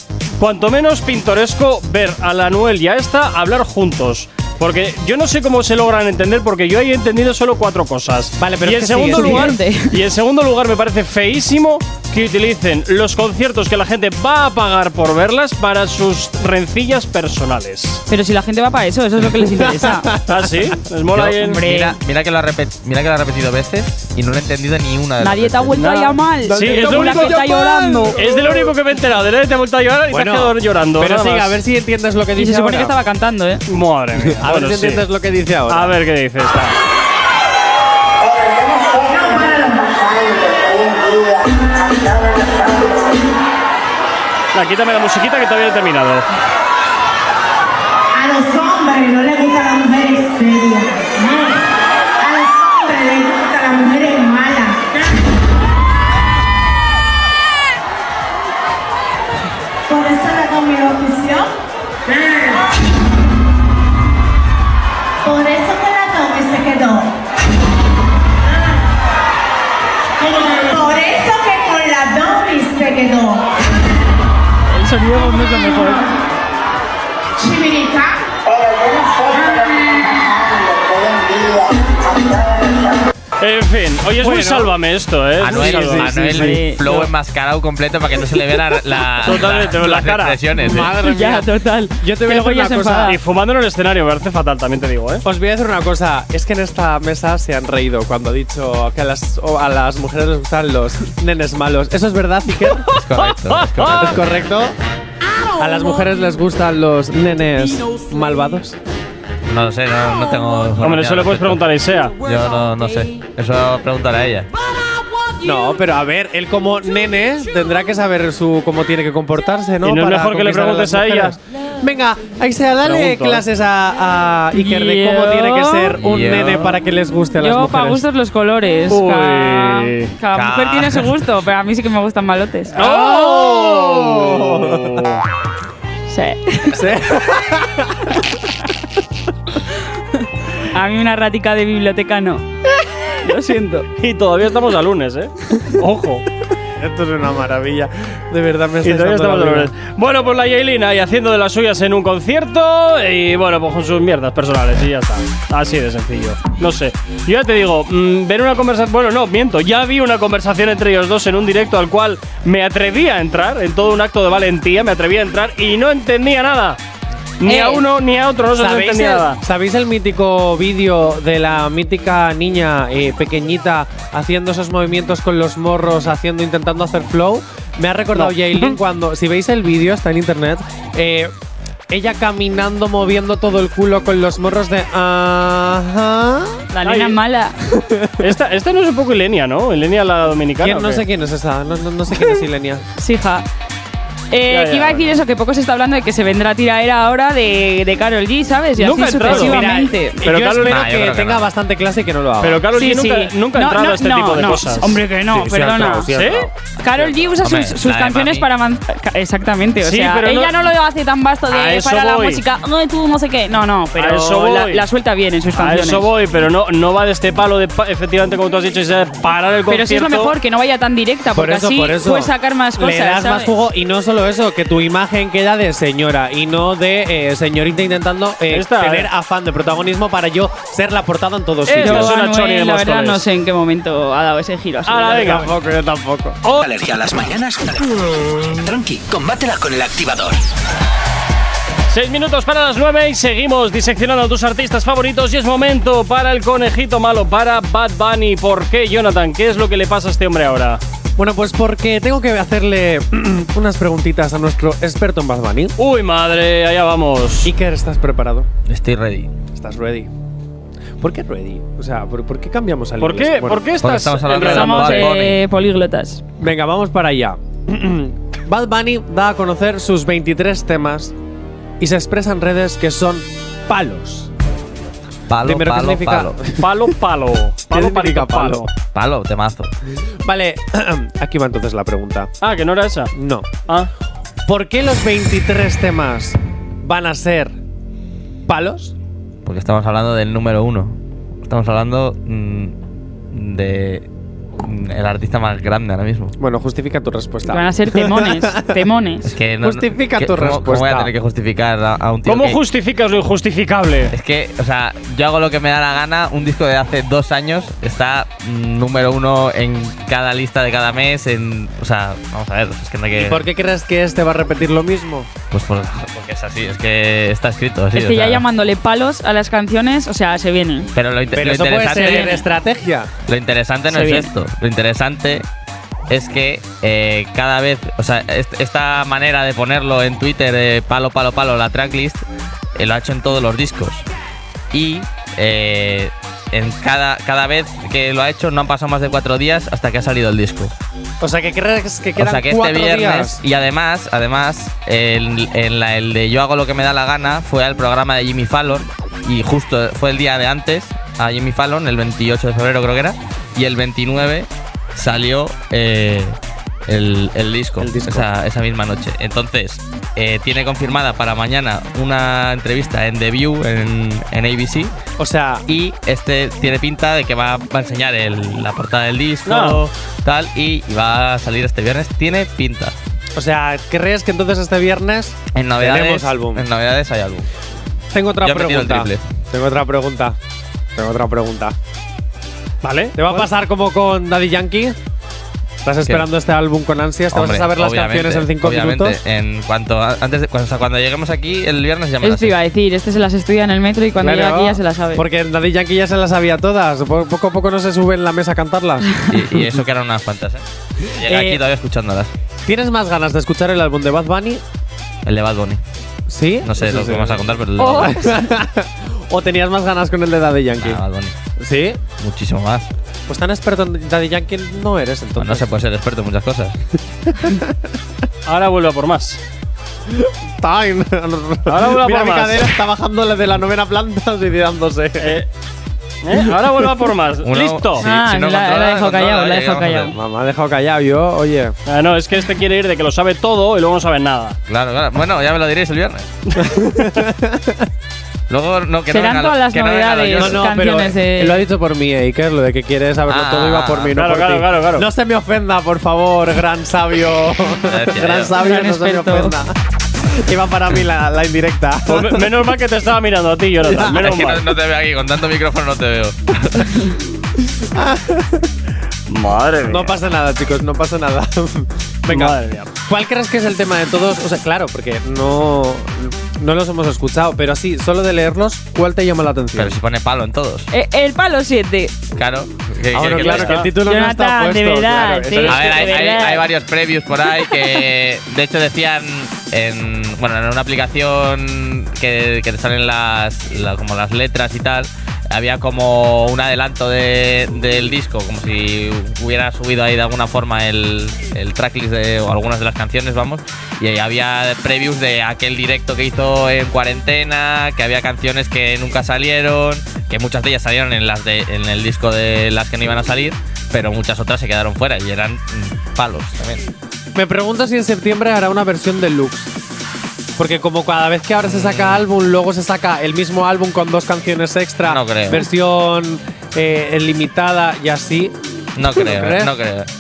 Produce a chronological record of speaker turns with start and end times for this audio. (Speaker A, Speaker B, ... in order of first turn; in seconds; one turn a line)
Speaker A: 0.4-18.0
Speaker B: 8.4-9.6
Speaker C: 9.1-10.0
Speaker C: 18.1-20.1
Speaker B: 19.4-20.8
Speaker A: 20.3-21.6
Speaker D: 21.1-25.8
Speaker C: 21.4-22.0
Speaker C: 25.2-28.2
Speaker A: 25.8-27.4
Speaker B: 26.4-28.7
Speaker A: 28.1-31.6
Speaker B: 30.1-32.9
Speaker C: 32.4-33.6
Speaker A: 33.7-35.1
Speaker B: 34.4-36.0
Speaker A: 35.7-36.8
Speaker E: 39.0-40.0
Speaker A: 44.5-46.3
Speaker E: 48.1-51.6
Speaker E: 52.2-55.0
Speaker E: 59.9-61.5
Speaker E: 62.1-62.5
Speaker E: 65.2-67.1
Speaker E: 70.2-73.5
Speaker C: 74.7-76.1
Speaker E: 77.4-78.3
Speaker A: 83.4-86.2
Speaker B: 84.2-84.7
Speaker D: 85.4-90.9
Speaker B: 85.5-87.1
Speaker C: 86.3-86.8
Speaker A: 89.2-90.4
Speaker B: 90.7-93.2
Speaker C: 90.7-93.2
Speaker A: 93.1-95.2
Speaker B: 95.2-102.9
Speaker D: 103.0-104.4
Speaker A: 103.2-104.2
Speaker B: 104.0-104.8
Speaker B: 105.6-108.8
Speaker D: 109.5-111.6
Speaker A: 110.8-112.2
Speaker D: 112.2-114.5
Speaker B: 115.4-128.1
Speaker A: 119.8-121.4
Speaker A: 122.8-123.4
Speaker C: 124.5-126.0
Speaker D: 126.0-126.8
Speaker C: 127.4-132.9
Speaker A: 128.9-130.1
Speaker D: 130.3-131.2
Speaker B: 132.8-135.1
Speaker A: 132.8-135.2
Speaker C: 136.1-136.8
Speaker B: 136.7-138.2
Speaker C: 140.7-142.4
Speaker C: 143.2-143.9
Speaker A: 144.0-146.2
Speaker B: 146.8-149.7
Speaker A: 148.8-166.8
Speaker A: 167.4-169.4
Speaker C: 167.4-167.8
Speaker B: 168.6-181.3
Speaker A: 178.2-178.8
Speaker B: 181.9-186.6
Speaker C: 186.7-187.6
Speaker A: 186.8-187.2
Speaker B: 187.8-188.1
Speaker A: 188.2-191.1
Speaker B: 190.6-192.8
Speaker C: 193.0-193.4
Speaker C: 194.3-200.2
Speaker A: 194.5-195.1
Speaker A: 198.8-199.6
Speaker B: 199.2-202.6
Speaker A: 200.2-200.8
Speaker D: 200.6-201.5
Speaker A: 202.4-205.0
Speaker C: 202.7-206.1
Speaker B: 205.3-206.5
Speaker A: 206.1-206.5
Speaker C: 206.8-216.1
Speaker D: 207.4-208.5
Speaker A: 209.8-210.5
Speaker A: 211.5-212.4
Speaker A: 213.9-214.9
Speaker A: 215.5-220.3
Speaker C: 219.7-223.5
Speaker B: 221.3-232.2
Speaker A: 228.5-229.1
Speaker A: 231.7-233.2
Speaker C: 231.8-235.3
Speaker A: 234.9-235.5
Speaker B: 235.0-236.4
Speaker F: 236.6-240.4
Speaker A: 241.9-250.8
Speaker B: 251.2-255.7
Speaker A: 255.8-257.5
Speaker B: 257.4-258.5
Speaker D: 258.7-259.3
Speaker B: 259.6-260.1
Speaker B: 261.0-263.6
Speaker A: 263.0-265.1
Speaker D: 263.8-265.4
Speaker C: 264.3-266.2
Speaker B: 266.4-271.1
Speaker B: 271.8-274.3
Speaker D: 275.3-276.4
Speaker B: 275.4-276.7
Speaker A: 276.6-278.7
Speaker B: 277.7-278.7
Speaker D: 278.9-279.7
Speaker B: 280.2-282.3
Speaker A: 282.4-283.1
Speaker B: 283.1-283.6
Speaker B: 284.5-287.6
Speaker B: 288.5-288.9
Speaker D: 289.5-292.8
Speaker D: 293.3-294.1
Speaker D: 294.6-296.4
Speaker B: 296.4-298.9
Speaker C: 297.5-299.3
Speaker D: 299.3-302.6
Speaker B: 299.6-301.1
Speaker A: 302.3-304.1
Speaker D: 304.1-313.4
Speaker B: 313.2-315.3
Speaker D: 315.5-318.4
Speaker C: 317.9-320.9
Speaker D: 320.9-322.4
Speaker B: 321.3-323.1
Speaker C: 321.9-322.4
Speaker D: 323.3-325.4
Speaker C: 323.9-324.3
Speaker D: 326.1-332.2
Speaker D: 332.8-334.1
Speaker D: 334.7-340.7
Speaker B: 341.2-343.4
Speaker D: 342.2-364.9
Speaker B: 357.8-358.3
Speaker B: 365.2-365.6
Speaker D: 365.7-372.9
Speaker A: 369.5-369.8
Speaker B: 373.4-376.6
Speaker D: 375.6-377.5
Speaker B: 378.1-380.4
Speaker D: 378.4-379.2
Speaker B: 381.0-381.8
Speaker A: 382.8-383.2
Speaker B: 383.1-385.0
Speaker B: 385.8-389.2
Speaker D: 387.3-392.6
Speaker C: 392.2-395.2
Speaker B: 394.2-399.1
Speaker D: 399.3-400.6
Speaker D: 401.2-402.3
Speaker B: 401.2-401.6
Speaker B: 402.7-404.6
Speaker D: 405.2-405.8
Speaker B: 406.3-411.0
Speaker D: 406.6-408.3
Speaker C: 407.8-408.3
Speaker D: 410.8-411.3
Speaker B: 411.6-412.0
Speaker D: 412.2-412.9
Speaker B: 413.3-415.7
Speaker D: 415.4-416.7
Speaker B: 417.4-417.7
Speaker A: 418.5-419.4
Speaker B: 420.1-425.4
Speaker A: 421.7-422.7
Speaker A: 425.2-425.5
Speaker A: 426.2-428.1
Speaker D: 427.4-430.1
Speaker C: 428.0-430.1
Speaker B: 430.1-431.8
Speaker A: 431.9-434.6
Speaker D: 434.7-436.3
Speaker B: 436.6-437.9
Speaker D: 438.5-440.6
Speaker C: 439.1-441.6
Speaker B: 440.4-449.8
Speaker D: 443.3-444.1
Speaker A: 444.1-445.1
Speaker D: 447.9-448.5
Speaker C: 448.6-449.6
Speaker B: 450.3-452.5
Speaker A: 452.1-454.7
Speaker B: 453.9-454.2
Speaker D: 454.1-457.1
Speaker B: 457.7-458.7
Speaker A: 459.3-460.1
Speaker B: 459.9-470.0
Speaker A: 462.3-462.9
Speaker D: 469.8-470.9
Speaker C: 470.9-472.1
Speaker D: 472.4-473.9
Speaker B: 473.1-476.1
Speaker A: 473.2-473.9
Speaker C: 473.8-476.6
Speaker D: 475.6-506.8
Speaker B: 507.4-509.7
Speaker B: 510.6-519.7
Speaker D: 511.6-512.2
Speaker D: 515.1-515.6
Speaker D: 519.0-520.1